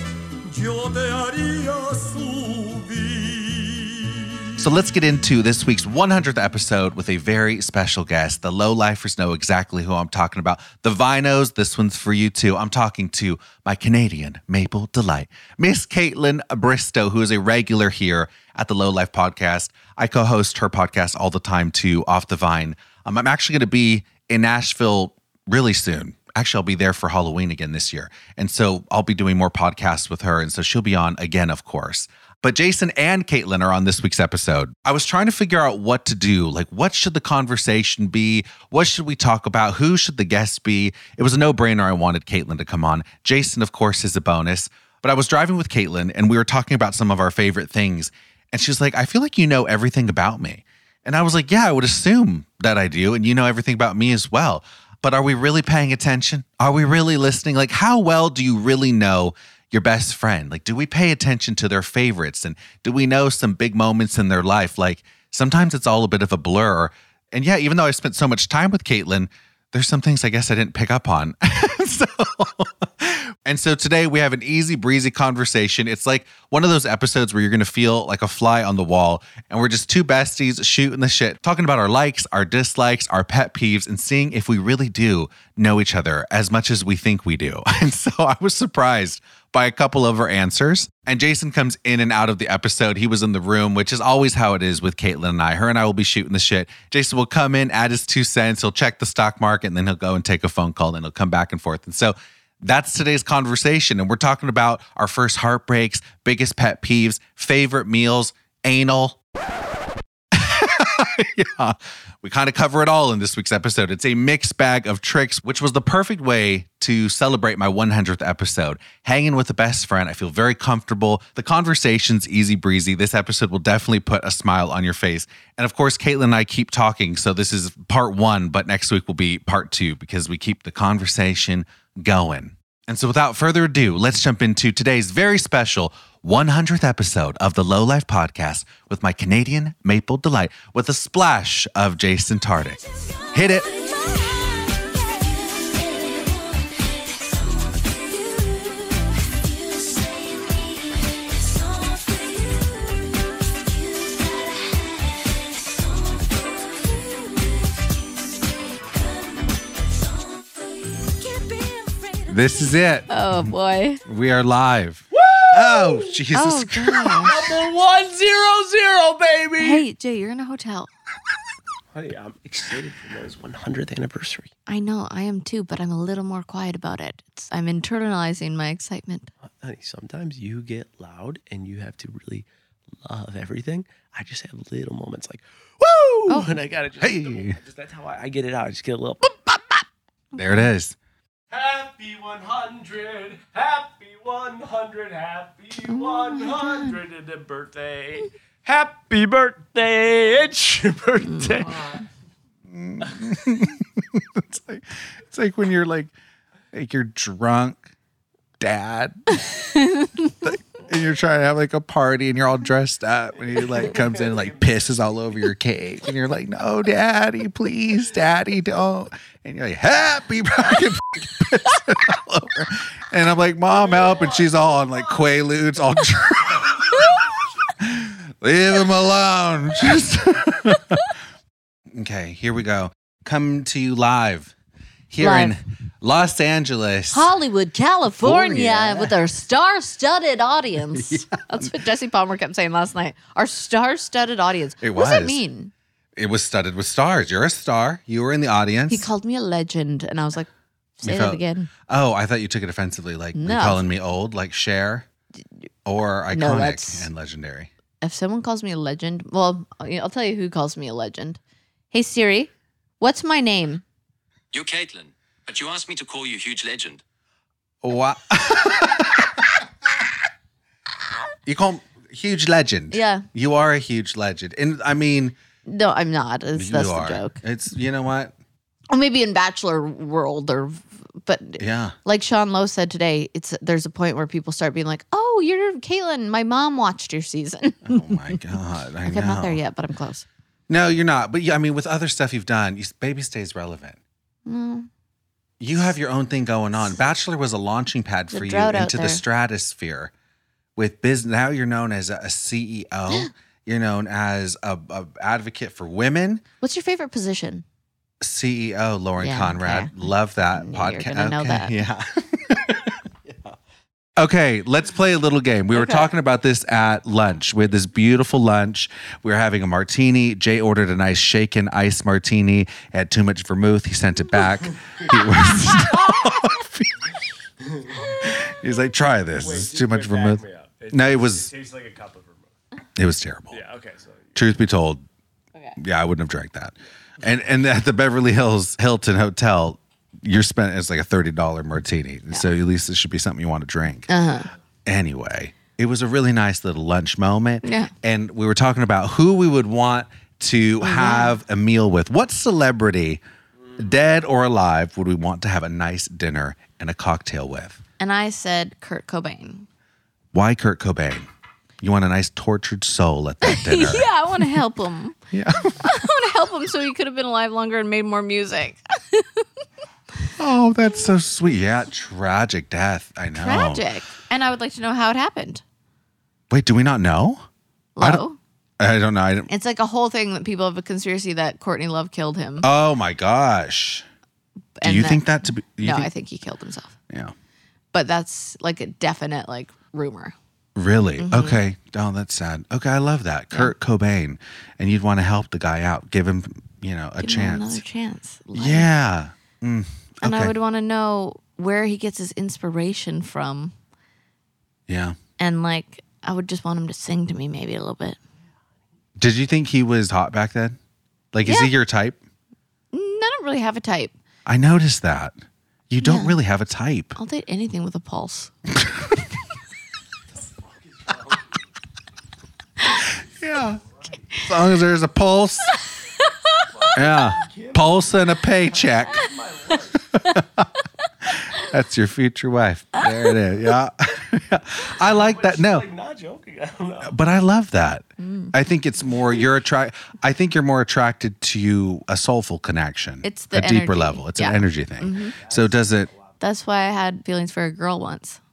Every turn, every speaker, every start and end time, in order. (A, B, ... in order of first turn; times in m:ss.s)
0:00.4-0:04.6 A
0:04.6-1:49.2 B
1:50.3-2:23.8 B
2:41.6-2:42.0 C
2:42.3-2:43.5 B
2:43.1-2:44.0 C
2:44.0-2:47.3 B
2:45.1-2:46.2 D
2:46.3-2:47.3 C
2:47.2-2:49.8 D
2:49.6-2:50.9 C
2:51.9-2:54.5 D
2:54.7-2:59.3 C
2:59.5-3:02.5 D
3:03.0-3:09.3 D
3:07.0-3:07.6 B
3:10.3-3:11.0 B
3:11.5-3:22.0 D
3:15.9-3:17.0 C
3:21.2-3:21.6 C
3:22.7-3:26.1 B
3:26.7-3:27.9 B
3:28.6-3:29.4 B
3:29.6-3:30.3 C
3:30.4-3:47.1 B
3:33.6-3:34.8 D
3:44.0-3:44.4 D
3:47.8-3:51.0 B
3:51.9-3:54.5 B
3:55.1-3:57.3 B
3:55.2-3:55.5 C
3:57.1-4:05.7 C
3:58.2-3:59.2 B
4:00.9-4:01.2 B
4:04.8-4:05.4 B
4:06.2-4:09.1 B
4:08.9-4:10.5 C
4:11.0-4:11.7 C
4:11.0-4:15.1 B
4:13.3-4:13.8 C
4:15.8-4:17.7 B
4:16.3-4:17.1 C
4:18.0-4:21.4 C
4:21.9-4:23.8 C
4:24.5-4:27.0 E
4:27.8-4:29.4 B
4:31.4-4:35.4 B
4:32.9-4:33.2 C
4:35.6-4:37.4 C
4:36.5-4:38.3 B
4:38.9-4:48.4 C
4:41.6-4:41.9 B
4:47.8-4:49.6 B
4:49.0-4:50.2 C
4:50.7-4:54.0 B
4:54.4-4:54.9 C
4:55.6-5:00.1 B
4:58.3-4:59.2 C
5:00.8-5:06.4 B
5:06.6-5:07.6 C
5:08.2-5:13.0 B
5:09.2-5:11.8 C
5:14.2-5:27.1 B
5:15.7-5:16.0 C
5:25.9-5:26.4 C
5:27.7-5:28.1 D
5:28.1-5:31.5 B
5:29.4-5:32.5 D
5:33.0-5:33.6 B
5:33.5-5:34.4 D
5:34.3-5:35.0 B
5:35.8-5:44.1 B
5:44.1-5:44.5 C
5:44.8-5:53.2 B
5:47.6-5:47.9 C
5:50.8-5:51.4 C
5:53.8-5:57.8 B
5:58.0-5:59.7 C
6:00.3-6:01.3 B
6:01.8-6:04.5 B
6:03.4-6:05.2 C
6:05.3-6:05.9 B
6:05.8-6:09.4 C
6:10.4-6:13.8 B
6:13.4-6:15.6 C
6:16.5-6:17.4 B
6:18.0-6:18.4 C
6:18.8-6:19.5 B
6:19.5-6:22.7 C
6:22.6-6:24.0 B
6:24.8-6:25.2 C
6:24.8-6:26.1 B
6:25.8-6:26.9 C
6:27.9-6:30.3 C
6:30.8-6:37.8 B
6:31.2-6:31.6 C
6:37.2-6:38.9 C
6:38.5-6:40.5 B
6:40.2-6:43.7 C
6:44.9-6:45.2 B
6:45.4-6:48.2 C
6:49.2-6:50.8 B
6:51.3-6:52.2 B
6:51.4-6:51.7 C
6:52.9-6:54.1 C
6:54.4-6:55.3 B
6:55.9-6:57.2 B
6:56.0-6:56.4 C
6:57.2-6:58.5 C
7:01.0-7:01.4 D
7:02.9-7:03.8 B
7:04.4-7:05.8 B
7:06.3-7:06.7 C
7:06.7-7:08.1 D
7:06.9-7:09.3 B
7:08.7-7:10.1 D
7:10.1-7:10.6 B
7:11.2-7:15.9 B
7:15.0-7:17.2 D
7:17.0-7:26.1 B
7:18.2-7:18.5 C
7:23.2-7:25.3 C
7:25.4-7:25.7 D
7:26.4-7:28.4 C